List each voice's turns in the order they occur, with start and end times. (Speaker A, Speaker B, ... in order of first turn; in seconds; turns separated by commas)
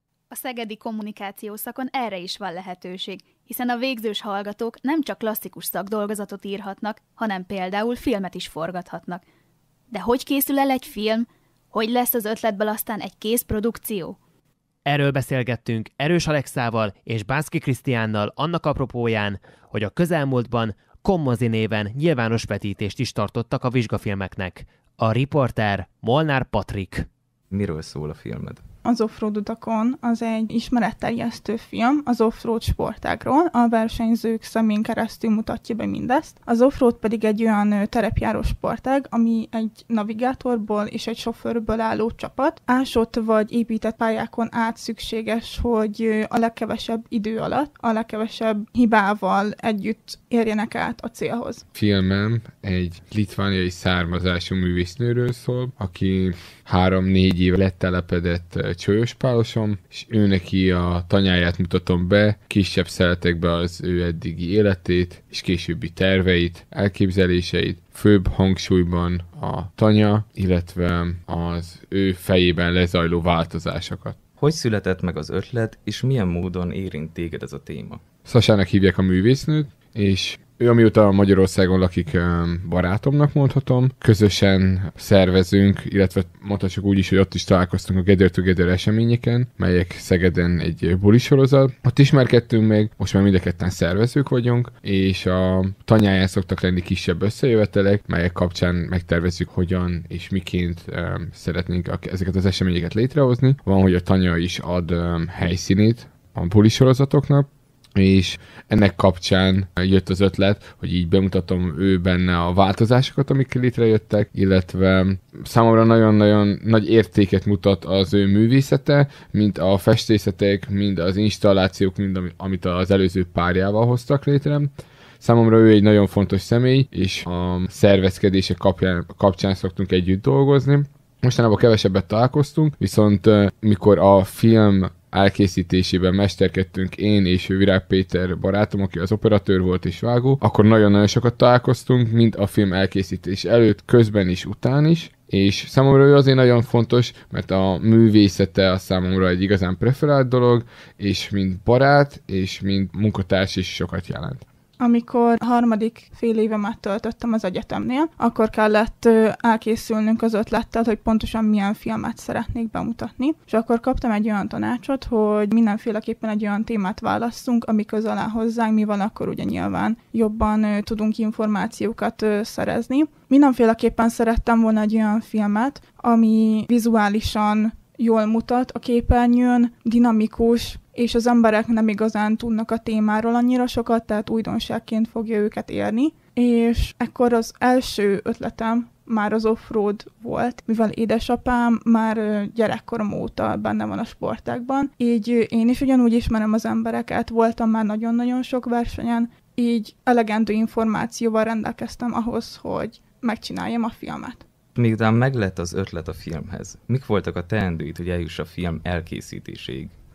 Speaker A: 0.3-9.2, Speaker A: 9.9-14.2, Speaker B: 14.8-27.1, Speaker C: 27.5-28.6, Speaker D: 28.8-51.6, Speaker E: 51.8-74.2, Speaker C: 74.4-78.0, Speaker E: 78.3-154.4, Speaker D: 154.8-204.4, Speaker C: 204.8-209.9